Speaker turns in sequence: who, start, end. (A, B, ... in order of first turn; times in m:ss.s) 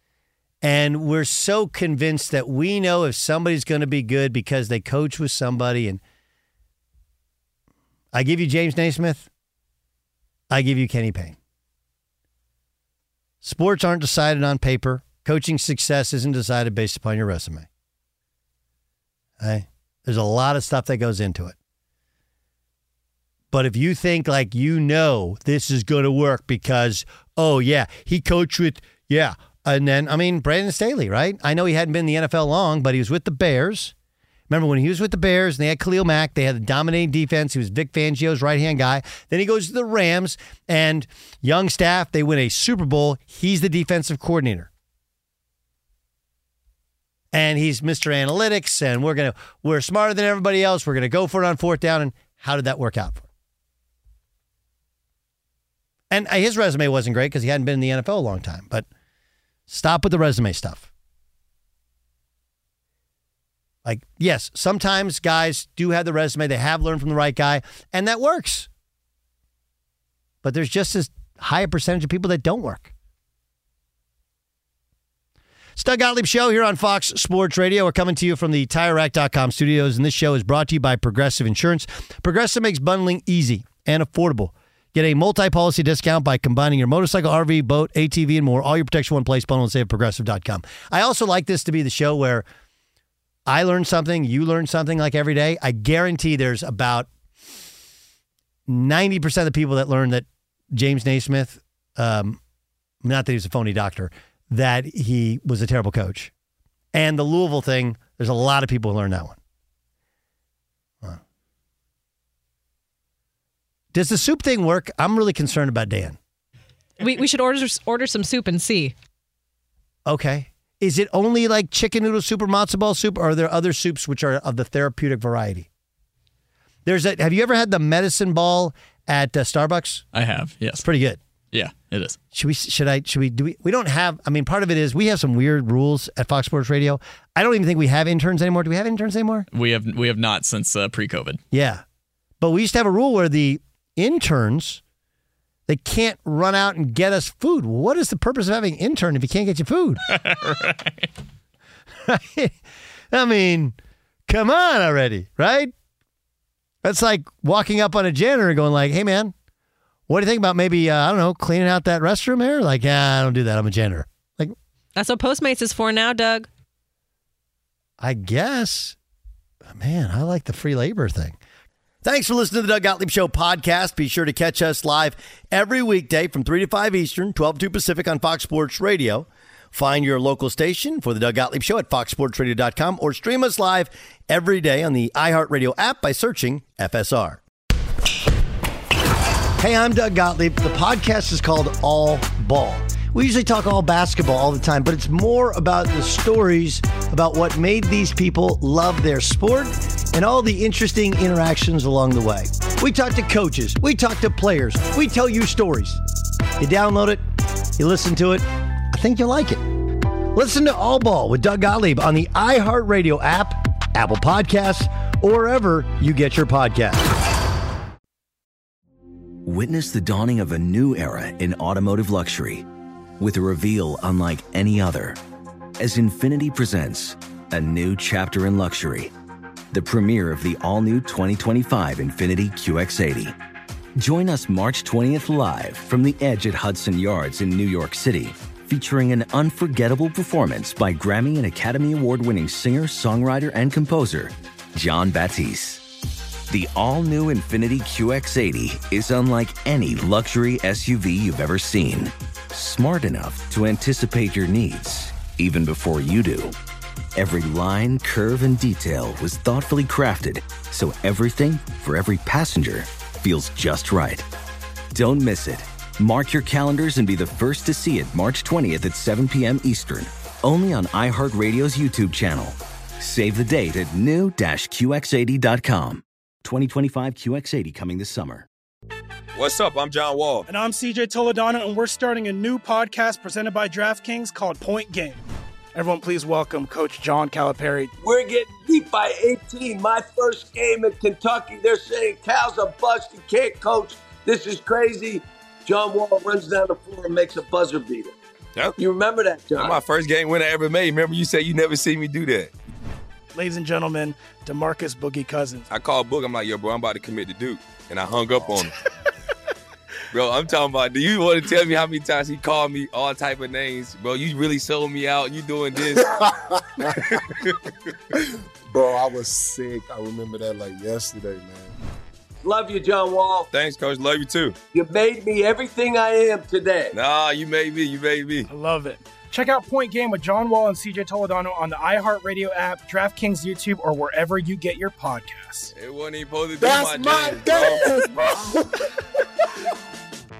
0:00.6-0:06.0 A
0:08.1-0:09.3 A
0:10.5-0:11.4 A
0:13.4-0:17.7 A
0:19.4-0:21.6 A
0:23.5-0:33.9 A
0:34.5-0:44.7 A
0:47.3-0:53.3 A
0:56.1-0:58.9 A
0:59.7-1:00.9 A
1:03.8-1:08.7 A
1:10.4-1:12.9 A
1:15.8-1:32.4 A
1:33.5-1:37.1 A
1:38.7-1:42.4 A
1:43.0-1:46.3 A
1:46.9-1:49.4 A
1:53.9-1:56.2 A
1:57.0-1:58.9 B
2:00.0-2:05.7 A
2:06.8-2:10.1 A
2:10.1-2:10.8 C
2:10.8-2:11.2 A
2:11.5-2:12.2 C
2:12.3-2:19.4 A
2:19.5-2:21.4 C
2:21.5-2:21.8 A
2:22.4-2:24.8 A
2:25.7-2:30.0 A
2:30.1-2:31.1 C
2:32.0-2:32.5 A
2:33.1-2:33.8 A
2:34.3-2:35.7 A
2:36.8-2:39.3 A
2:40.1-2:44.5 A
2:45.0-2:46.5 B
2:48.0-2:49.0 A
2:49.7-2:51.4 A
2:52.0-3:07.4 A
3:09.6-3:26.0 A
3:26.6-3:27.2 A
3:27.8-3:37.0 A
3:39.4-3:42.6 D
3:43.2-3:45.2 D
3:45.8-3:49.1 D
3:49.7-3:53.4 D
3:54.0-4:05.9 D
4:06.5-4:16.6 D
4:17.2-4:24.3 D
4:24.9-4:38.5 D
4:39.3-4:40.5 E
4:40.5-4:45.2 F
4:45.7-4:47.9 F
4:48.0-4:58.1 G
4:58.8-4:59.8 G
4:59.6-5:02.5 E
5:03.3-5:05.7 F
5:05.7-5:08.7 E
5:10.1-5:16.2 E
5:18.7-5:21.7 H
5:22.4-5:23.5 G
5:23.5-5:24.6 E
5:24.7-5:26.9 G
5:26.9-5:28.5 E
5:28.5-5:35.7 F
5:35.7-5:38.2 E